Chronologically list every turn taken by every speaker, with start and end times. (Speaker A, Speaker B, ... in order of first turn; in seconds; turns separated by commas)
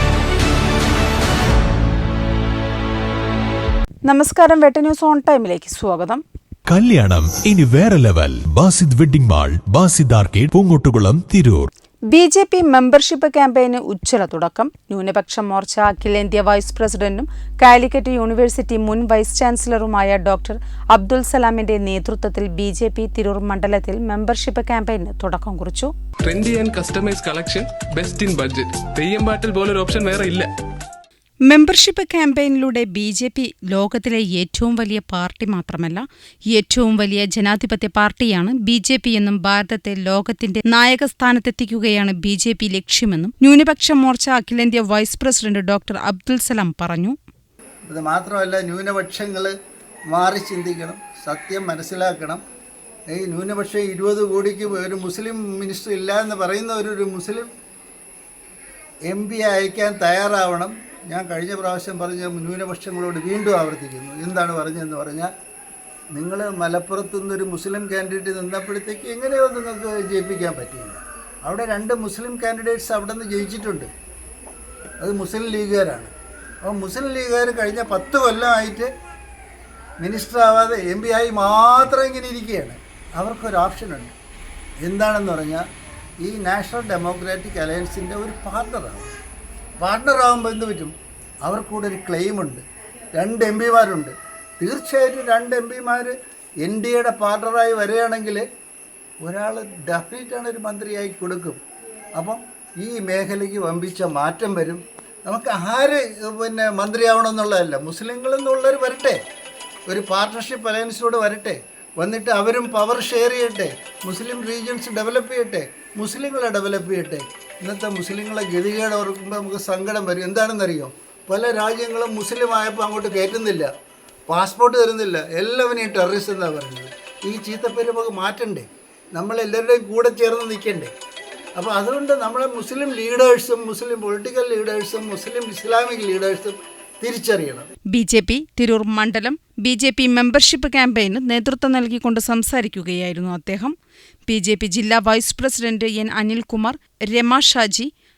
Speaker A: 4.0-6.2, Speaker B: 6.7-11.7, Speaker A: 12.1-25.9, Speaker C: 26.2-30.5, Speaker A: 31.5-47.2, Speaker D: 47.9-49.5, Speaker D: 50.1-52.4, Speaker D: 53.1-57.5, Speaker D: 59.1-65.3, Speaker D: 66.1-73.9, Speaker D: 75.0-76.1, Speaker D: 76.6-78.9, Speaker D: 80.0-84.1, Speaker D: 84.8-85.7, Speaker D: 86.2-89.2, Speaker D: 89.8-90.9, Speaker D: 91.5-98.5, Speaker D: 99.2-101.6, Speaker D: 102.2-109.2, Speaker D: 109.9-123.7, Speaker D: 124.3-130.9, Speaker D: 131.6-137.7, Speaker A: 137.9-143.8, Speaker A: 144.3-147.9